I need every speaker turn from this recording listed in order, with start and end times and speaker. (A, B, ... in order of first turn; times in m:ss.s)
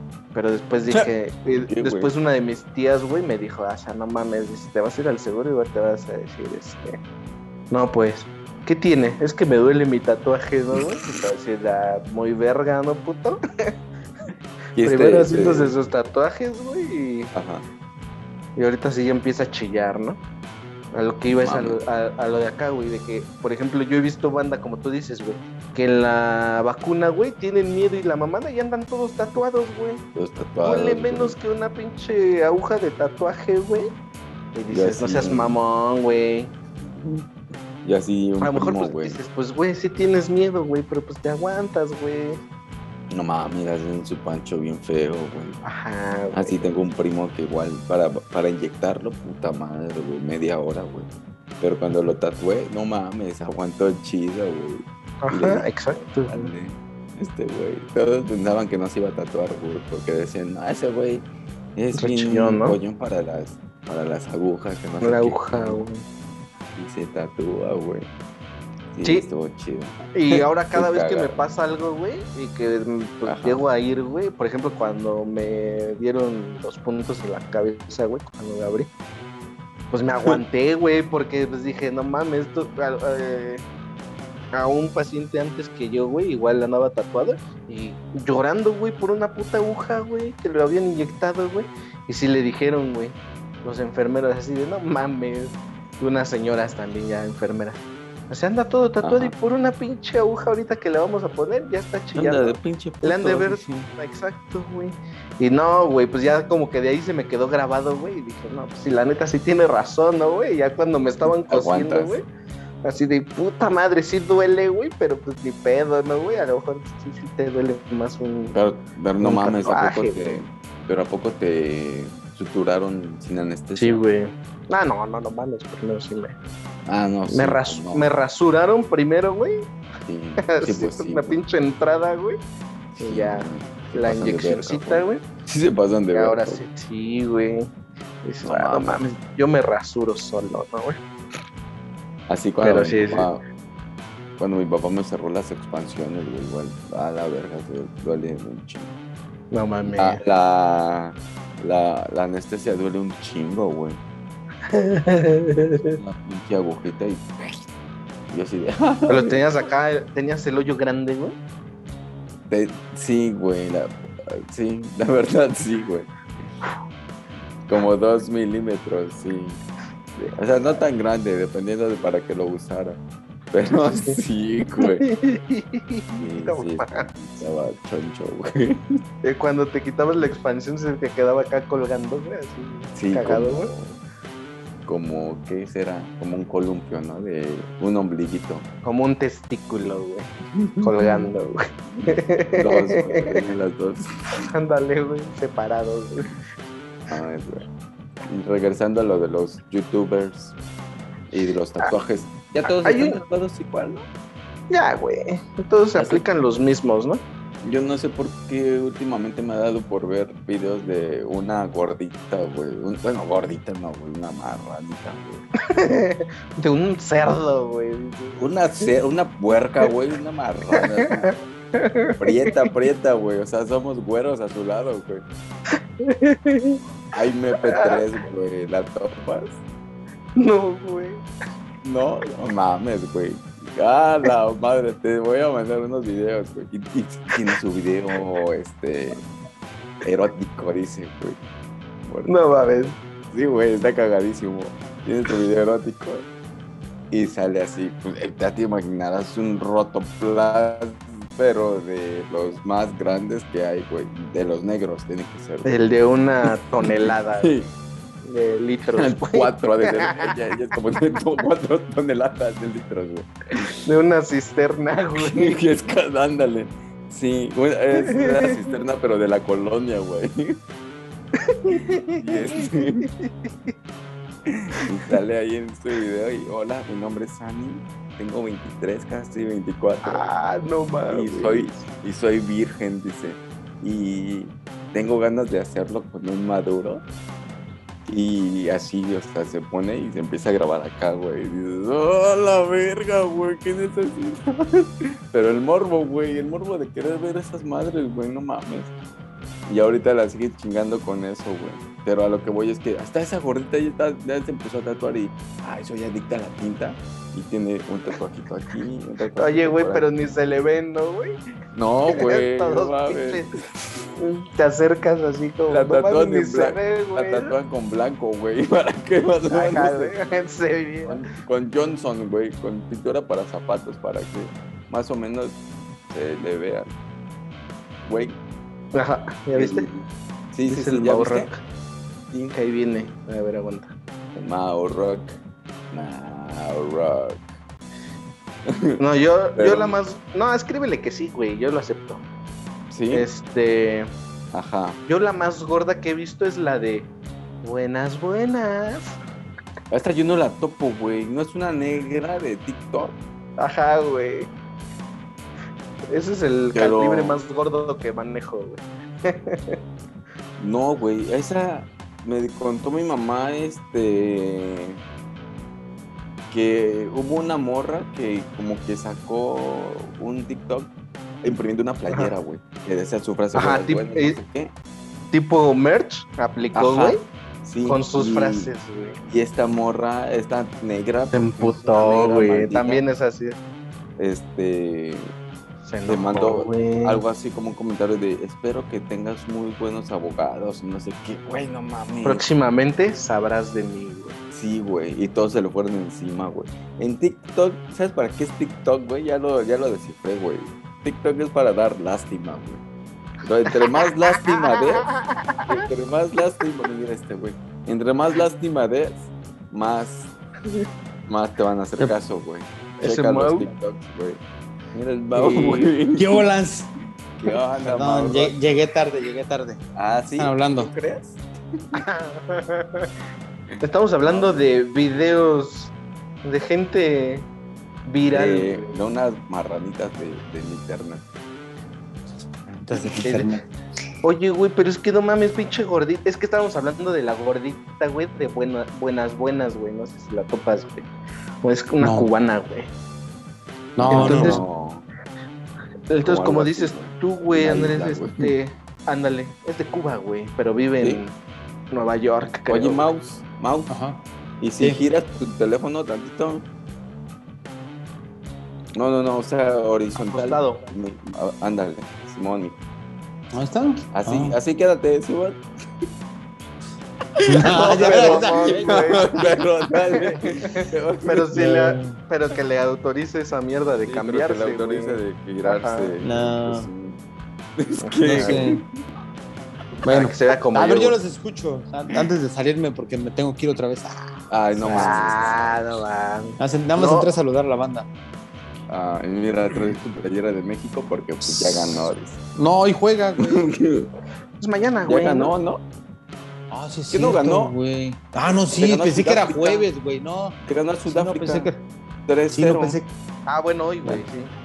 0:00.3-0:06.9 A
0:00.9-0:02.1 B
0:07.7-0:13.4 A
0:10.8-0:11.2 B
0:14.8-0:15.8 B
0:14.8-0:17.3 A
0:17.3-0:17.7 B
0:18.6-0:20.2 A
0:20.9-0:30.0 A
0:21.3-0:21.8 B
0:30.2-0:31.4 B
0:30.6-0:33.9 A
0:34.6-0:36.6 A
0:34.7-0:35.6 B
0:36.8-0:37.3 B
0:37.8-0:39.2 B
0:38.4-0:42.4 A
0:43.1-0:45.6 B
0:45.6-0:46.7 A
0:46.3-0:51.1 B
0:51.6-1:05.8 B
0:55.2-0:56.5 A
1:02.0-1:02.8 A
1:05.0-1:06.0 A
1:06.8-1:08.1 B
1:08.9-1:11.4 B
1:10.1-1:18.9 A
1:13.2-1:13.6 B
1:19.9-1:23.7 A
1:24.5-1:52.2 A
1:39.0-1:39.3 B
1:42.2-1:43.9 B
1:51.2-1:52.2 B
1:52.8-1:58.6 A
1:58.5-2:04.0 B
1:59.2-2:00.2 A
2:03.8-2:06.4 A
2:06.9-2:08.1 B
2:07.3-2:09.6 A
2:10.0-2:11.4 B
2:10.4-2:12.4 A
2:13.0-2:16.6 B
2:13.0-2:15.2 A
2:16.1-2:17.7 A
2:18.2-2:21.0 A
2:18.4-2:19.0 B
2:22.3-2:23.4 B
2:22.6-2:23.3 A
2:24.4-2:29.0 B
2:29.5-2:30.2 A
2:29.8-2:34.0 B
2:34.7-2:36.0 A
2:36.0-2:37.6 B
2:38.3-2:39.4 B
2:39.1-2:41.4 A
2:42.5-2:46.1 B
2:47.7-2:49.6 B
2:50.4-2:53.0 B
2:53.5-2:55.0 B
2:53.9-2:54.2 A
2:54.8-2:57.1 A
2:56.2-2:59.0 B
2:59.2-3:03.7 A
3:02.9-3:04.0 B
3:04.9-3:08.7 B
3:08.8-3:10.3 A
3:10.6-3:11.3 B
3:10.8-3:13.4 A
3:12.0-3:14.5 B
3:14.5-3:16.3 A
3:17.1-3:17.7 B
3:18.3-3:20.6 B
3:21.3-3:24.0 B
3:22.8-3:23.2 A
3:24.7-3:27.2 A
3:26.0-3:26.2 B
3:27.6-3:35.4 B
3:35.7-3:38.4 A
3:38.4-3:41.3 B
3:40.8-3:42.5 A
3:42.2-3:45.2 B
3:46.0-3:46.8 A
3:47.1-3:49.6 B
3:47.7-3:48.0 A
3:50.4-3:51.2 A
3:51.8-3:59.2 B
4:00.0-4:01.4 B
4:02.1-4:02.3 B
4:02.3-4:03.0 A
4:03.3-4:06.2 B
4:07.1-4:15.8 B
4:15.6-4:17.5 A
4:16.5-4:17.7 B
4:18.2-4:20.3 A
4:19.0-4:23.8 B
4:23.8-4:25.6 A
4:25.2-4:30.6 B
4:28.0-4:28.5 A
4:31.4-4:33.7 A
4:31.7-4:33.1 B
4:34.5-4:40.3 B
4:40.0-4:41.8 A
4:41.1-4:47.0 B
4:48.1-4:58.9 B
4:59.7-5:10.1 B
5:09.4-5:11.3 A
5:11.7-5:14.1 B
5:12.1-5:13.5 A
5:14.2-5:17.5 A
5:15.7-5:20.1 B
5:19.5-5:21.2 A
5:21.1-5:25.6 B
5:26.1-5:26.9 B
5:28.0-5:28.4 B
5:28.9-5:29.9 A
5:29.6-5:31.5 B
5:30.7-5:31.6 A
5:32.4-5:33.9 A
5:34.4-5:35.4 B
5:35.9-5:37.5 B
5:38.7-5:39.0 B
5:39.0-5:42.2 A
5:39.6-5:40.0 B
5:42.9-5:43.3 B
5:43.1-5:44.1 A
5:44.5-5:45.0 B
5:45.1-5:47.1 A
5:47.6-5:49.2 A
5:49.9-5:53.2 B
5:53.6-5:54.5 A
5:56.1-5:59.8 A
5:56.7-5:57.4 B
6:00.6-6:05.0 B
6:06.5-6:10.9 B
6:11.4-6:14.7 B
6:13.5-6:14.4 A
6:15.3-6:17.2 A
6:16.7-6:18.7 B
6:17.9-6:19.2 A
6:19.2-6:23.0 B
6:21.3-6:23.6 A
6:24.2-6:25.3 B
6:25.8-6:27.2 A
6:26.0-6:32.4 B
6:32.2-6:34.4 A
6:34.5-6:42.8 B
6:43.4-6:45.1 B
6:44.6-6:45.9 A
6:45.7-6:50.3 B
6:51.3-6:54.4 B
6:53.0-6:53.7 A
6:54.9-6:56.4 B
6:55.4-6:55.9 A
6:56.2-6:56.9 C
6:57.4-6:58.6 B
6:57.8-6:59.8 C
7:00.0-7:01.4 B
7:00.4-7:00.9 C
7:02.0-7:03.1 A
7:03.7-7:04.7 B
7:03.8-7:05.9 A
7:06.4-7:07.5 A
7:08.1-7:09.0 A
7:08.3-7:11.2 B
7:12.7-7:13.6 C
7:13.2-7:13.5 A
7:14.2-7:21.1 A
7:21.6-7:22.9 A
7:22.0-7:22.3 C
7:24.0-7:24.6 C
7:24.0-7:25.1 B
7:24.1-7:24.6 A
7:26.1-7:31.3 A
7:26.2-7:28.5 B
7:31.9-7:33.1 A
7:32.7-7:33.9 B
7:33.9-7:34.2 C
7:34.6-7:36.7 B
7:39.0-7:42.8 B
7:40.2-7:40.9 A
7:43.5-7:44.6 C
7:44.1-7:45.6 B
7:47.4-7:51.6 B
7:47.5-7:49.4 C
7:47.7-7:49.5 A
7:50.4-7:56.1 A
7:51.5-7:52.2 C
7:54.1-7:57.2 B
7:56.2-7:56.9 C
7:57.8-7:58.8 B
7:58.0-7:58.6 A
7:58.2-7:58.8 C
8:00.0-8:05.6 C
8:00.1-8:01.2 A
8:04.5-8:05.8 B
8:04.9-8:07.3 A
8:06.6-8:08.1 C
8:08.9-8:12.4 B
8:11.4-8:13.7 C
8:13.4-8:14.1 B
8:14.6-8:15.5 A
8:15.0-8:15.8 B
8:16.7-8:21.8 C
8:17.1-8:17.8 B
8:18.7-8:19.9 B
8:20.6-8:21.7 B
8:22.3-8:23.0 B
8:22.5-8:23.1 C
8:23.5-8:24.5 A